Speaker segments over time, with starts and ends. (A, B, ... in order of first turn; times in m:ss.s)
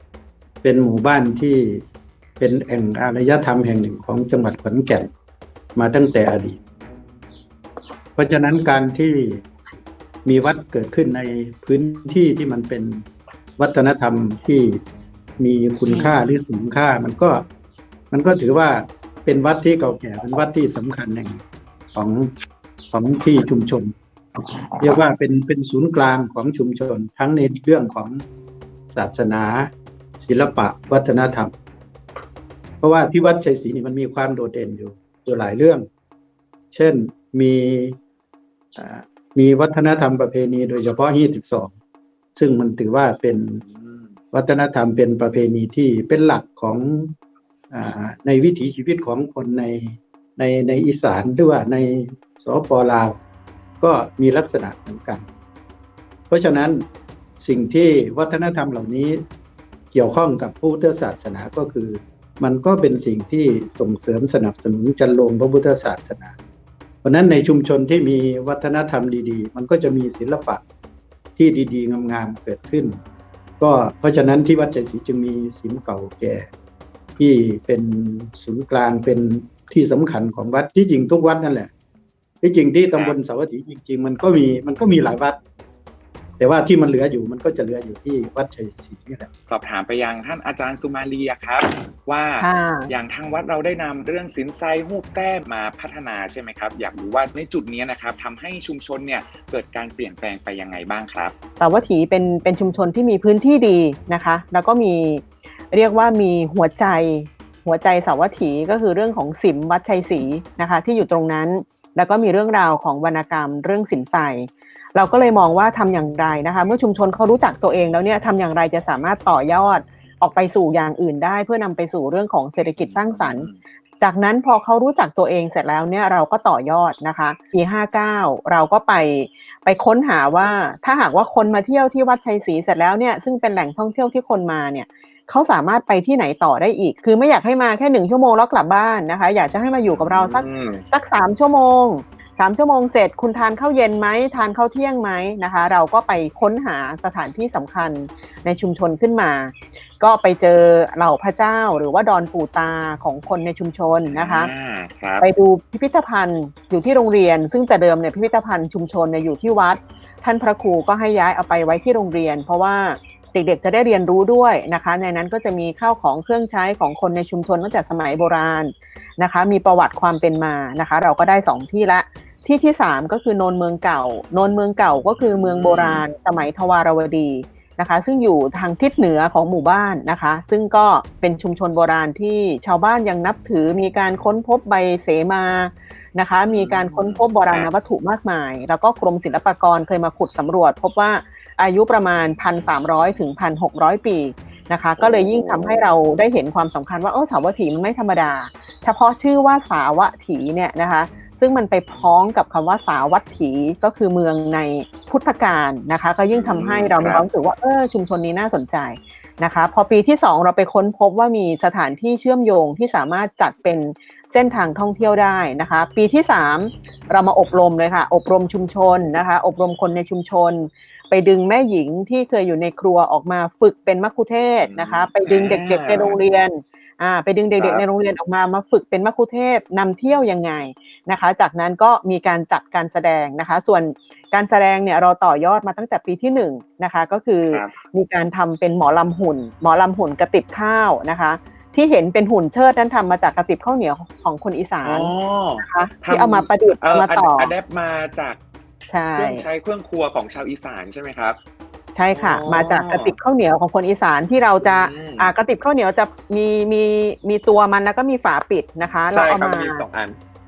0:00.6-0:01.8 A
0:02.4-0:05.1 A
0:05.8-0:06.6 A
0:08.2-0:09.4 A
0:10.2-0:13.0 A
0:13.6-0:14.8 A
0:15.4-0:17.4 A
0:18.1-0:21.4 A
0:22.0-0:22.3 A
0:22.9-0:28.2 A
0:28.9-0:31.5 A
0:32.8-0:35.9 A
0:36.7-0:38.0 A
0:38.8-0:41.7 A
0:42.4-0:43.6 A
0:43.6-0:44.2 B
0:44.3-0:47.2 A
0:47.7-0:53.2 A
0:53.8-0:55.2 A
0:56.3-0:56.9 A
0:57.4-0:59.2 A
0:59.9-1:06.4 A
1:07.0-1:10.6 A
1:11.4-1:13.0 A
1:13.6-1:16.5 A
1:17.2-1:21.7 A
1:22.4-1:25.4 A
1:26.4-1:29.3 A
1:29.5-1:41.3 B
1:32.4-1:32.9 C
1:41.6-2:03.5 C
2:02.8-2:03.6 B
2:04.0-2:34.5 C
2:19.9-2:20.8 B
2:34.1-2:35.3 B
2:35.2-4:07.5 C
2:55.2-2:56.0 B
3:06.5-3:07.7 B
3:15.0-3:15.8 B
3:26.3-3:27.2 B
3:44.6-3:46.2 B
3:47.6-3:47.8 B
3:57.5-3:57.8 B
4:04.8-4:08.4 B
4:08.9-4:09.5 C
4:09.2-4:11.4 B
4:11.9-4:19.8 C
4:12.1-4:13.2 B
4:14.6-4:15.3 B
4:19.1-4:20.2 B